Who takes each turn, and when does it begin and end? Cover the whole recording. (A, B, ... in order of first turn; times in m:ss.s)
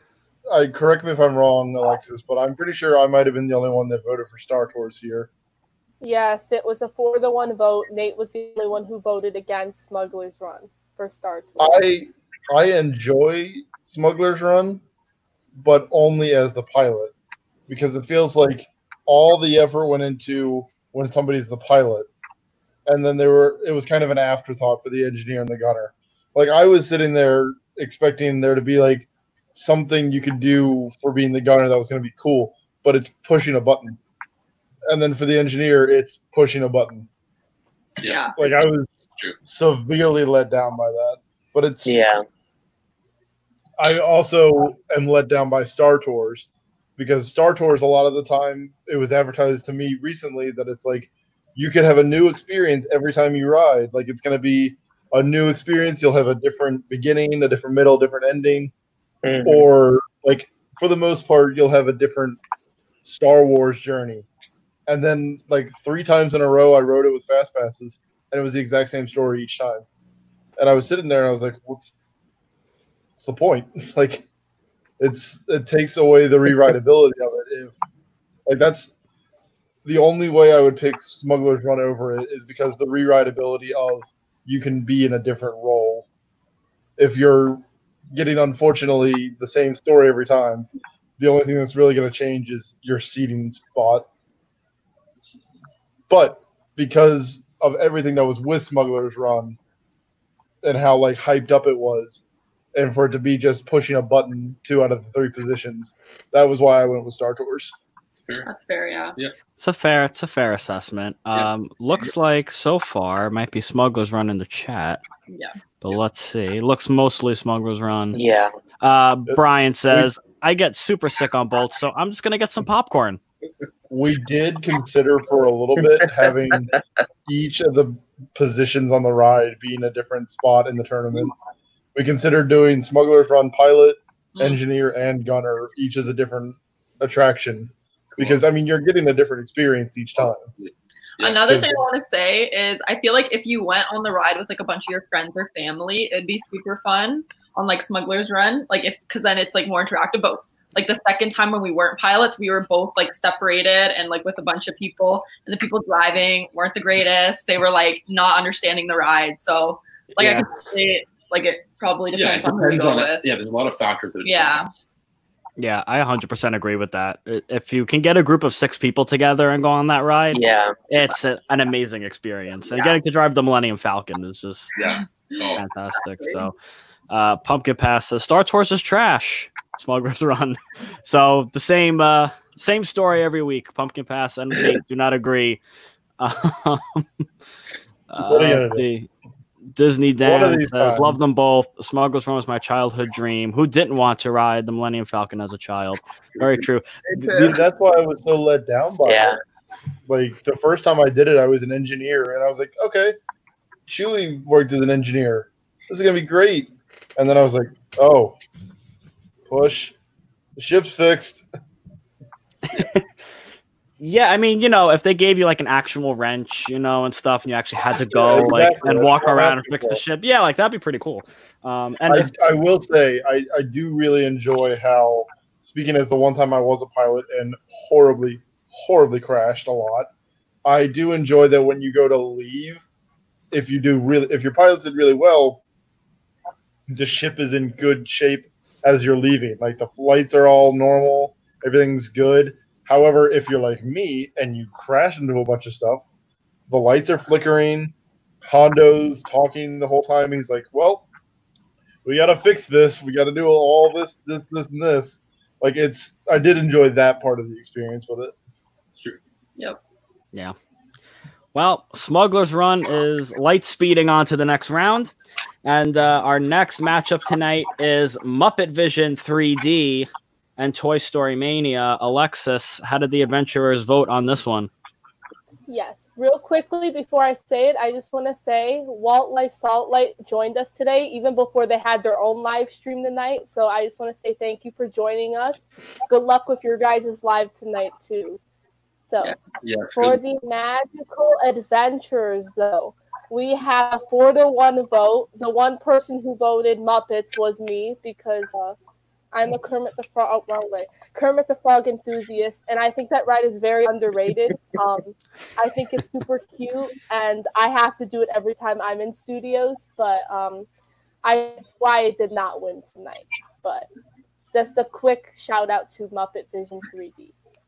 0:00.5-0:05.3 A
0:06.0-0:11.8 B
0:11.6-0:14.8 A
0:15.6-0:17.1 A
0:17.7-0:22.1 A
0:22.8-0:34.0 A
0:34.9-0:37.1 A
0:38.0-0:38.6 C
0:38.0-0:38.4 D
0:38.4-0:42.0 A
0:41.8-0:42.2 E
0:43.8-0:58.7 A
0:59.2-0:59.6 E
0:59.4-1:02.4 A
1:03.0-1:04.3 A
1:04.9-1:09.8 A
1:10.6-1:11.9 A
1:13.2-1:14.2 A
1:15.0-1:17.8 A
1:18.4-1:18.9 A
1:19.8-1:26.1 A
1:27.0-1:30.7 A
1:31.2-1:34.1 A
1:36.1-1:39.6 A
1:40.6-1:42.2 A
1:42.7-1:47.7 A
1:48.1-1:48.5 C
1:48.4-1:49.2 D
1:49.6-1:55.0 F
1:55.3-1:55.5 D
1:55.8-1:58.2 F
1:58.1-1:58.5 E
1:58.8-2:03.2 F
1:59.3-2:00.1 A
2:03.9-2:11.3 A
2:11.9-2:20.4 A
2:18.2-2:18.4 C
2:20.6-2:21.6 C
2:21.2-2:43.3 D
2:21.5-2:21.8 A
2:40.2-2:40.4 F
2:42.1-2:44.6 C
2:44.2-2:44.7 D
2:45.6-2:54.7 F
2:50.3-2:50.8 E
2:54.8-2:55.6 C
2:55.5-2:56.5 F
2:57.1-3:05.6 F
3:06.2-3:07.0 F
3:08.1-3:09.1 F
3:08.2-3:08.9 A
3:09.7-3:16.8 F
3:10.2-3:11.3 A
3:17.1-3:17.6 D
3:17.2-3:19.4 A
3:19.0-3:19.4 E
3:20.0-3:23.2 A
3:23.9-3:28.4 A
3:29.5-3:29.9 A
3:30.6-3:31.4 A
3:32.7-3:33.0 F
3:34.0-3:42.3 F
3:38.1-3:40.0 A
3:42.1-3:50.1 A
3:50.6-3:52.8 A
3:53.5-3:55.6 A
3:56.9-4:06.1 A
4:06.7-4:11.0 A
4:12.0-4:18.3 A
4:21.5-4:25.1 F
4:25.6-4:34.7 F
4:35.7-4:48.4 B
4:49.0-4:49.4 B
4:49.6-4:50.2 C
4:49.9-4:58.8 B
4:59.3-5:10.7 B
5:11.2-5:13.9 B
5:14.5-5:17.3 B